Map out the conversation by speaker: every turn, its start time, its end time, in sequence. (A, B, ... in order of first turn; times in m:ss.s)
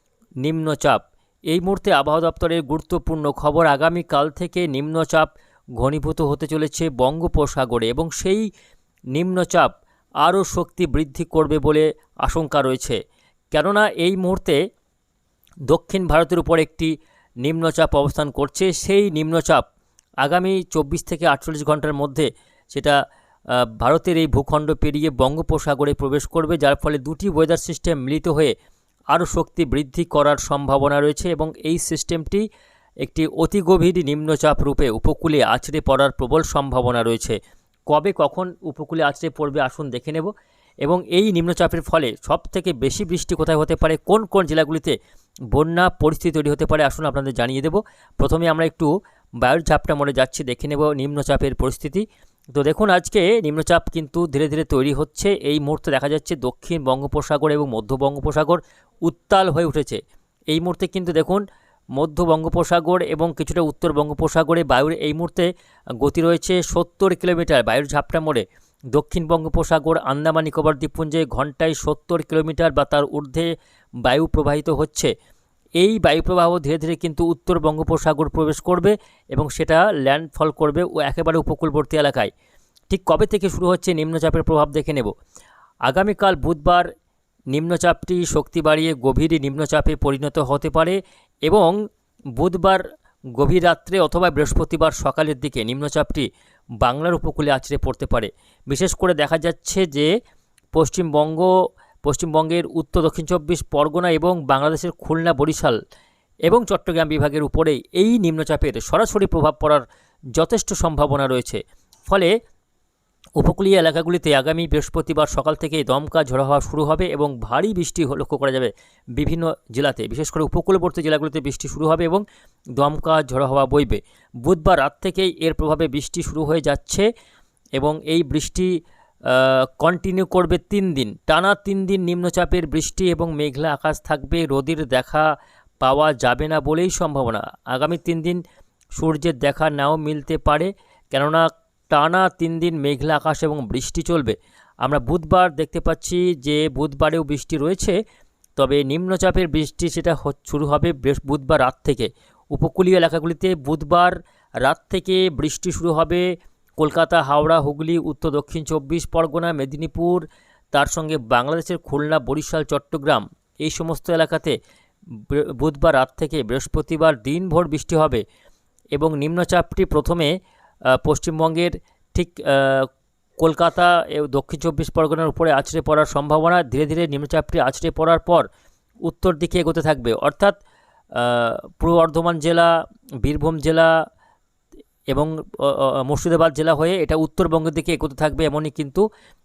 0:00.4-0:08.5 A
0:09.1-0:13.0 A
0:13.5-0:14.6 A
0:15.7-0:16.9 A
0:17.4-0:19.6 A
0:20.2-0:23.0 A
0:23.5-0:28.5 A
0:29.1-0:32.4 A
0:33.0-0:40.3 A
0:40.8-0:45.0 A
0:45.5-0:48.9 A
0:49.4-1:01.4 A
1:02.0-1:05.5 A
1:06.0-1:13.5 A
1:14.0-1:15.1 A
1:15.8-1:22.3 A
1:22.9-1:25.1 A
1:25.9-1:26.9 A
1:27.5-1:31.8 A
1:32.4-1:32.8 A
1:33.4-1:36.3 A
1:36.8-1:40.1 A
1:40.7-1:41.5 A
1:42.0-1:45.8 A
1:46.5-1:49.8 A
1:50.4-1:52.3 A
1:53.4-2:02.2 A
2:02.8-2:07.1 A
2:07.8-2:08.7 A
2:09.3-2:15.3 A
2:15.8-2:18.4 A
2:19.0-2:28.0 A
2:28.6-2:36.3 A
2:36.8-2:44.6 A
2:45.3-2:48.2 A
2:49.0-2:50.3 A
2:51.0-2:52.9 A
2:53.4-2:58.5 A
2:59.0-3:00.6 A
3:01.1-3:02.7 A
3:03.2-3:03.9 A
3:05.1-3:09.0 A